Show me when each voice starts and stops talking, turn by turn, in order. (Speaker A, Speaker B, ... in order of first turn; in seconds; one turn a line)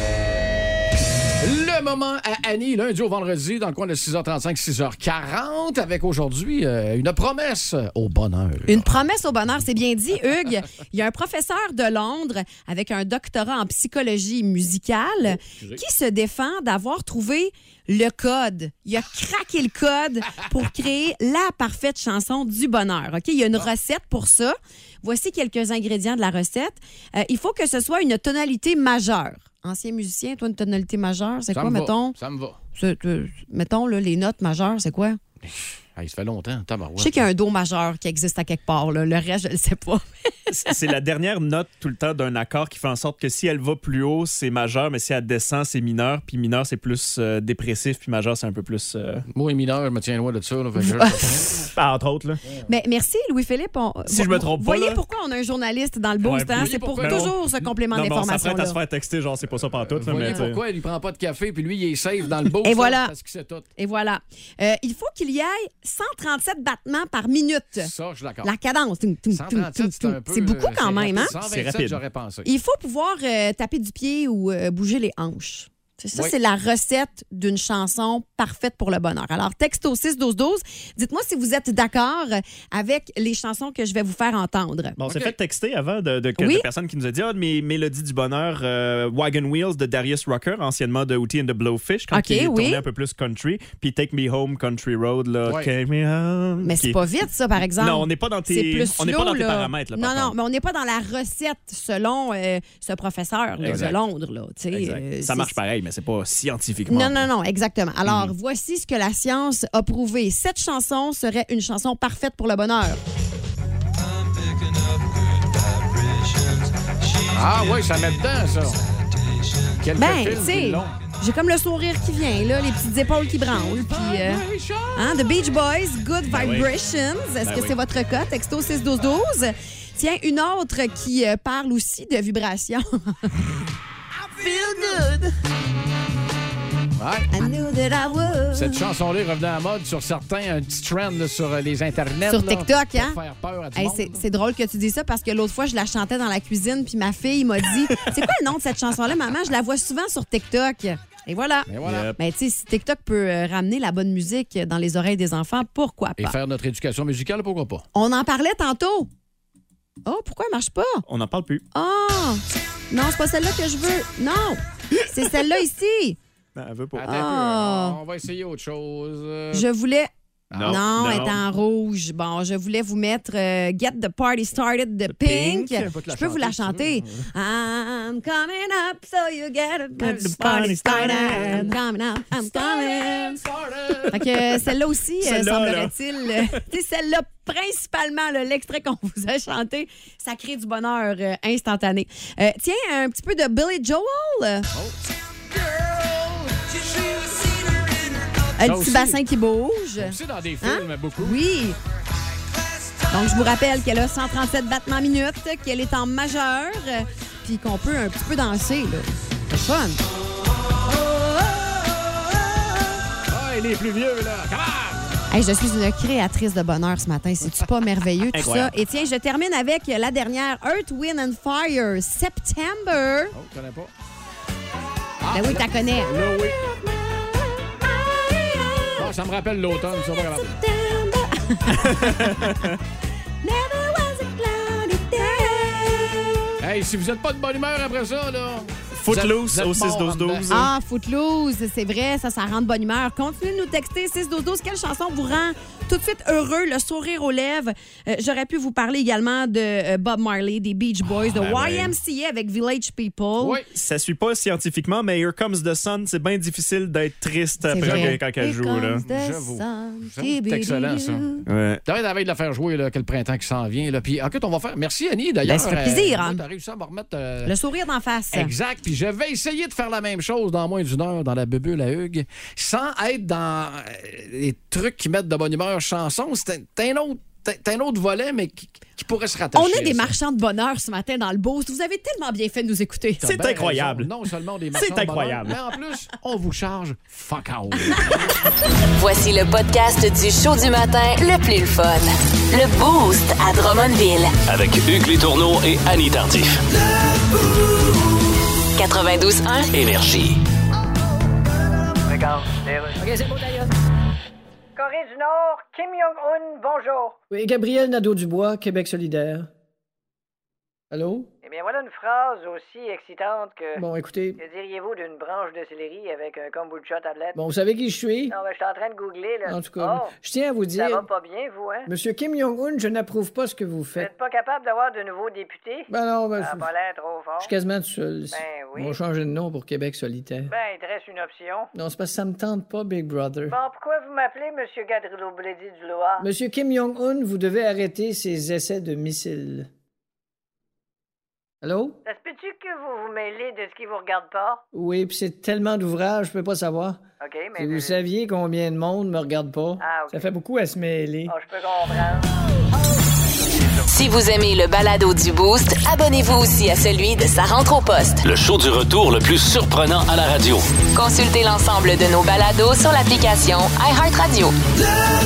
Speaker A: 1.4-8.9
Speaker B: 8.7-32.1
Speaker A: 15.3-15.8
Speaker A: 31.5-32.6
Speaker B: 32.8-35.2
Speaker A: 35.4-37.2
Speaker B: 37.0-40.0
Speaker C: 40.5-49.2
Speaker A: 49.3-51.7
Speaker B: 50.8-51.5
Speaker C: 51.7-52.4
Speaker B: 52.7-58.8
Speaker C: 54.1-55.0
Speaker C: 56.2-60.6
Speaker A: 56.5-57.3
Speaker A: 59.7-63.7
Speaker B: 62.6-63.1
Speaker B: 63.8-67.9
Speaker A: 67.8-68.5
Speaker B: 68.4-71.3
Speaker A: 69.3-72.5
Speaker C: 71.2-72.0
Speaker B: 72.4-85.0
Speaker C: 85.0-97.0
Speaker A: 85.1-85.3
Speaker B: 86.4-86.7
Speaker B: 92.1-92.8
Speaker A: 95.4-95.7
Speaker B: 96.6-105.5
Speaker C: 97.7-100.3
Speaker C: 103.6-104.0
Speaker A: 103.7-103.9
Speaker C: 104.7-107.3
Speaker B: 106.9-113.0
Speaker C: 108.0-108.3
Speaker A: 117.3-118.8
Speaker A: 119.8-120.9
Speaker B: 120.0-124.4
Speaker A: 123.8-125.1
Speaker B: 125.0-133.3
Speaker C: 126.3-126.7
Speaker A: 134.3-135.2
Speaker A: 137.0-137.3
Speaker B: 137.3-138.8
Speaker A: 138.5-144.2
Speaker B: 142.3-143.2
Speaker B: 143.8-156.3
Speaker A: 151.7-152.1
Speaker C: 151.8-152.2
Speaker A: 156.2-157.8
Speaker B: 157.9-159.1
Speaker B: 160.1-161.0
Speaker C: 161.1-161.6
Speaker B: 161.7-166.2
Speaker C: 166.5-167.1
Speaker A: 166.9-169.7
Speaker B: 167.0-168.0
Speaker B: 169.5-183.4
Speaker A: 170.5-170.9
Speaker C: 170.5-171.4
Speaker C: 175.1-175.9
Speaker A: 175.7-177.3
Speaker C: 180.0-181.8
Speaker A: 181.0-181.7
Speaker A: 182.4-184.5
Speaker B: 184.1-194.7
Speaker C: 185.2-186.5
Speaker A: 195.5-197.7
Speaker B: 198.6-201.8
Speaker A: 198.6-199.2
Speaker A: 200.0-201.4
Speaker B: 203.1-210.0
Speaker A: 213.3-215.0
Speaker B: 215.3-223.3
Speaker C: 218.3-218.7
Speaker A: 223.3-223.9
Speaker A: 225.2-226.6
Speaker B: 225.3-229.1
Speaker A: 229.0-230.6
Speaker B: 230.3-232.4
Speaker C: 231.7-232.8
Speaker B: 233.4-236.4
Speaker A: 236.6-240.6
Speaker C: 239.0-240.7
Speaker B: 240.5-253.6
Speaker C: 251.3-251.9
Speaker A: 251.4-251.8
Speaker A: 253.4-253.7
Speaker C: 253.7-259.0
Speaker B: 257.6-261.4
Speaker A: 257.8-258.2
Speaker A: 259.0-261.3
Speaker C: 261.4-261.8
Speaker A: 261.8-267.5
Speaker B: 265.4-266.4
Speaker B: 267.4-268.5
Speaker A: 268.3-280.1
Speaker B: 279.5-283.3
Speaker A: 283.2-288.1
Speaker C: 283.2-284.1
Speaker C: 284.7-285.6
Speaker D: 289.0-294.3
Speaker E: 294.4-296.6
Speaker D: 298.8-299.7
Speaker E: 299.7-300.4
Speaker F: 302.1-303.0
Speaker G: 303.0-303.7
Speaker F: 304.8-307.2
Speaker G: 307.3-309.5
Speaker G: 310.9-311.3
Speaker F: 311.4-313.8
Speaker G: 313.8-314.4
Speaker F: 314.4-317.4
Speaker G: 317.3-318.3
Speaker F: 318.3-320.1
Speaker G: 319.4-321.1
Speaker F: 320.7-321.9
Speaker G: 321.9-324.1
Speaker F: 323.9-327.5
Speaker G: 325.9-326.7
Speaker G: 327.4-330.5
Speaker F: 328.3-329.0
Speaker F: 330.5-331.7
Speaker G: 331.7-333.6
Speaker F: 333.5-336.3
Speaker G: 336.2-339.7
Speaker G: 341.6-342.0
Speaker F: 342.0-344.6
Speaker G: 344.7-347.0
Speaker F: 347.2-348.0
Speaker G: 347.6-351.3
Speaker F: 349.8-350.3
Speaker F: 351.2-352.3
Speaker D: 353.9-358.2
Speaker E: 358.2-360.7
Speaker D: 360.9-364.5